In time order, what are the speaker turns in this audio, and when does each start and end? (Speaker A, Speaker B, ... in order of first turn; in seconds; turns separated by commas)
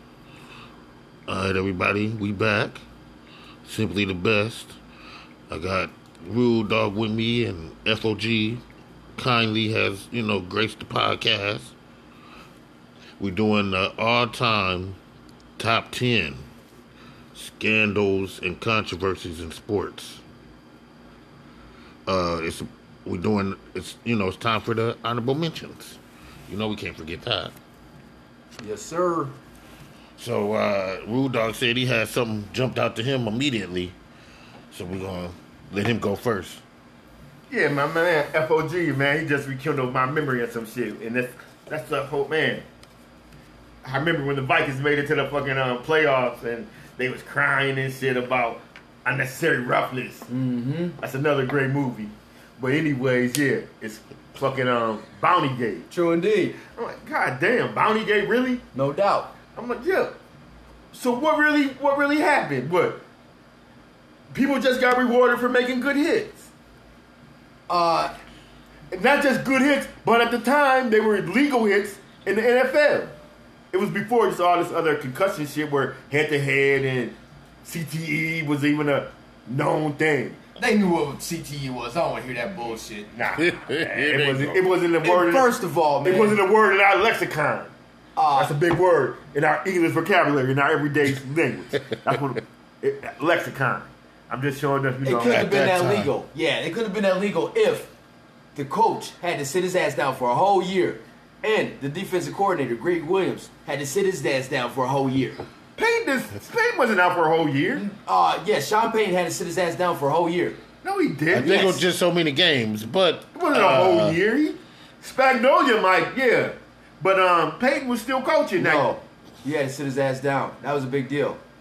Speaker A: 1.3-2.8, Speaker A: 3.6-4.8, Speaker A: 5.5-8.6, Speaker A: 9.2-11.7, Speaker A: 13.2-15.0, Speaker A: 15.6-16.4, Speaker A: 17.3-20.2, Speaker A: 22.1-27.5, Speaker B: 28.6-29.3, Speaker A: 30.2-33.9, Speaker A: 34.7-36.6, Speaker C: 37.5-42.6, Speaker C: 43.8-50.3, Speaker B: 50.3-51.0, Speaker C: 51.0-55.9, Speaker B: 55.9-56.6, Speaker C: 56.6-58.6, Speaker B: 58.7-59.3, Speaker C: 59.5-60.1, Speaker C: 60.9-63.0, Speaker C: 64.3-66.5, Speaker B: 67.7-68.1, Speaker C: 68.9-73.1, Speaker C: 73.7-80.4, Speaker B: 80.6-83.1, Speaker C: 83.1-85.5, Speaker A: 83.4-84.6, Speaker B: 85.0-86.4, Speaker C: 86.0-87.7, Speaker B: 88.2-88.5, Speaker C: 88.3-95.5, Speaker B: 95.0-97.9, Speaker A: 95.2-96.1, Speaker B: 98.5-105.4, Speaker C: 105.8-107.8, Speaker B: 107.8-110.6, Speaker C: 110.8-111.8, Speaker A: 111.3-114.2, Speaker B: 111.4-111.8, Speaker C: 113.3-118.9, Speaker B: 118.6-121.4